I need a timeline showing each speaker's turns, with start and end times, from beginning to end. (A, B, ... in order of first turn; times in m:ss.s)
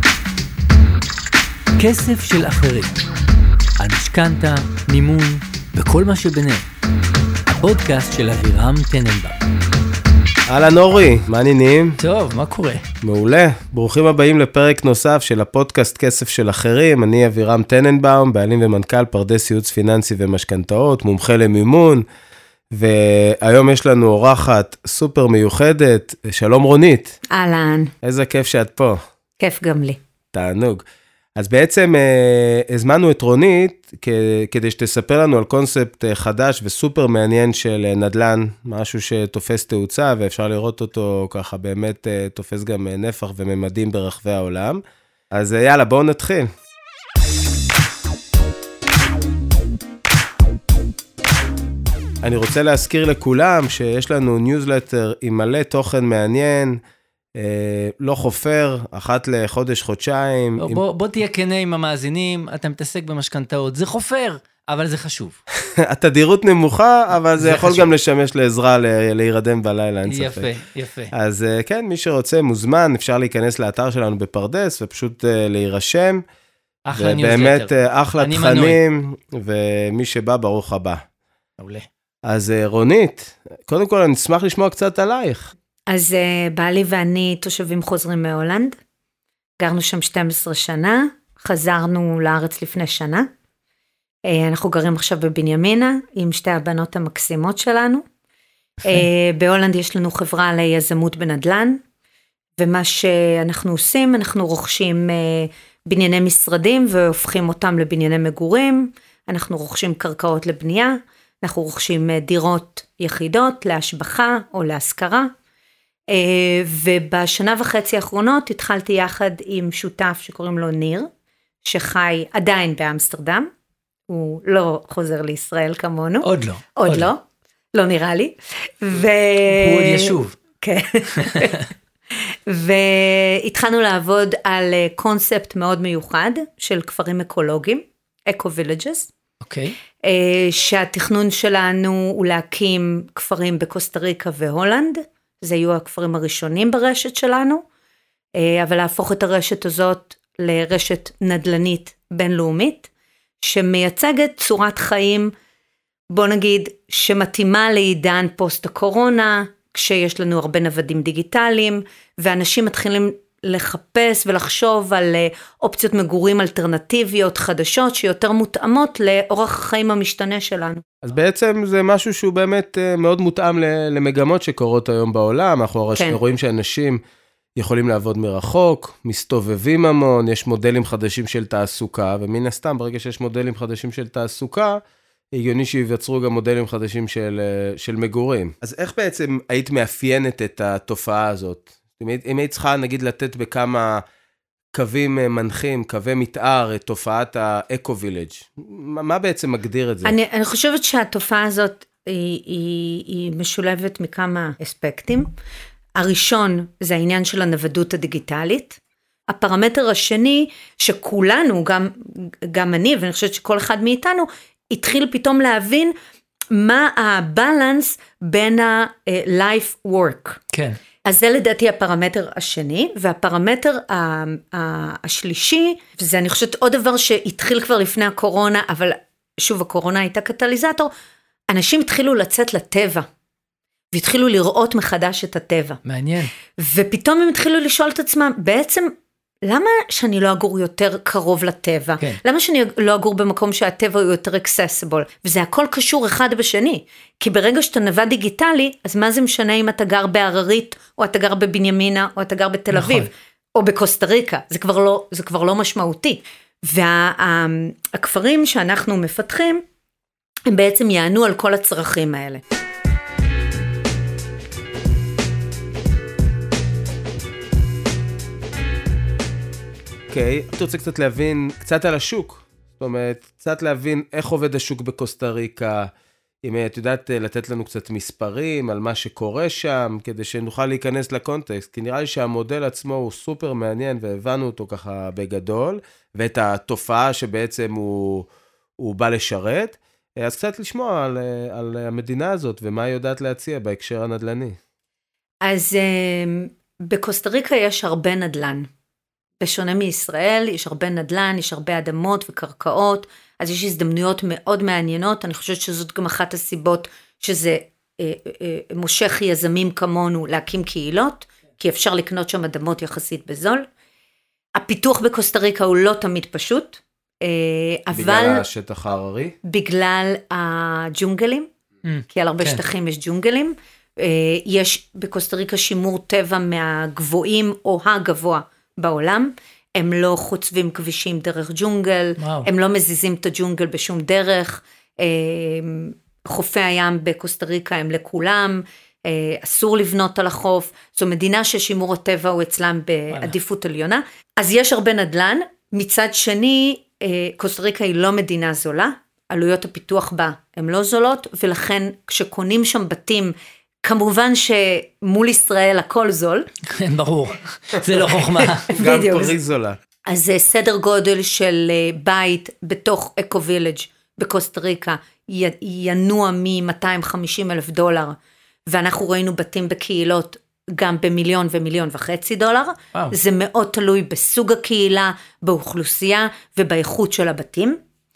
0:01.8-0:03.0 A
0:03.8-0:06.7 A
0:07.5-0:09.4 A
0:10.5-0:12.0 B
0:12.0-0:12.8 A
0:13.0-0:22.0 B
0:22.7-0:27.2 B
0:27.3-0:27.9 C
0:28.0-0:29.0 B
0:29.4-0:30.0 C
0:30.3-0:30.8 B
0:31.4-0:44.8 B
0:45.3-0:46.5 B
0:52.2-0:56.8 B
0:57.4-1:00.8 B
1:00.6-1:05.4 A
1:05.6-1:10.5 B
1:07.4-1:07.9 A
1:10.1-1:11.1 A
1:11.1-1:16.2 B
1:16.9-1:18.8 A
1:17.0-1:21.0 B
1:21.6-1:21.9 A
1:22.2-1:25.5 B
1:25.9-1:28.8 C
1:29.6-1:33.3 C
1:34.3-1:38.0 C
1:38.8-1:41.8 C
1:42.6-1:55.3 C
1:56.1-2:01.1 C
2:01.6-2:03.5 C
2:04.1-2:07.2 C
2:06.2-2:07.1 A
2:07.7-2:11.6 C
2:09.5-2:10.4 A
2:11.2-2:11.6 A
2:12.1-2:19.1 C
2:19.4-2:19.8 A
2:20.0-2:27.6 C
2:28.4-2:32.9 C
2:33.4-2:35.3 C
2:36.1-2:50.8 C
2:51.0-2:57.0 B
2:57.6-3:04.8 B
3:05.3-3:14.0 B
3:14.7-3:20.2 B
3:20.0-3:25.3 C
3:26.0-3:35.9 C
3:36.5-3:40.4 C
3:40.5-3:40.8 A
3:41.0-3:50.9 C
3:51.5-3:53.1 C
3:53.9-3:55.8 C
3:55.8-3:56.3 A
3:56.6-4:19.6 C
4:12.7-4:13.1 A
4:20.5-4:22.4 C
4:30.1-4:35.9 B
4:36.4-4:48.3 B
4:48.8-4:54.6 B
4:55.4-4:58.7 C
4:59.4-5:13.7 C
5:14.6-5:18.4 C
5:17.9-5:19.4 B
5:19.4-5:21.5 C
5:21.8-5:22.6 A
5:22.1-5:56.5 C
5:32.2-5:32.5 A
5:56.7-5:58.7 A
5:58.4-5:59.3 C
5:58.7-5:59.8 B
6:00.1-6:17.8 C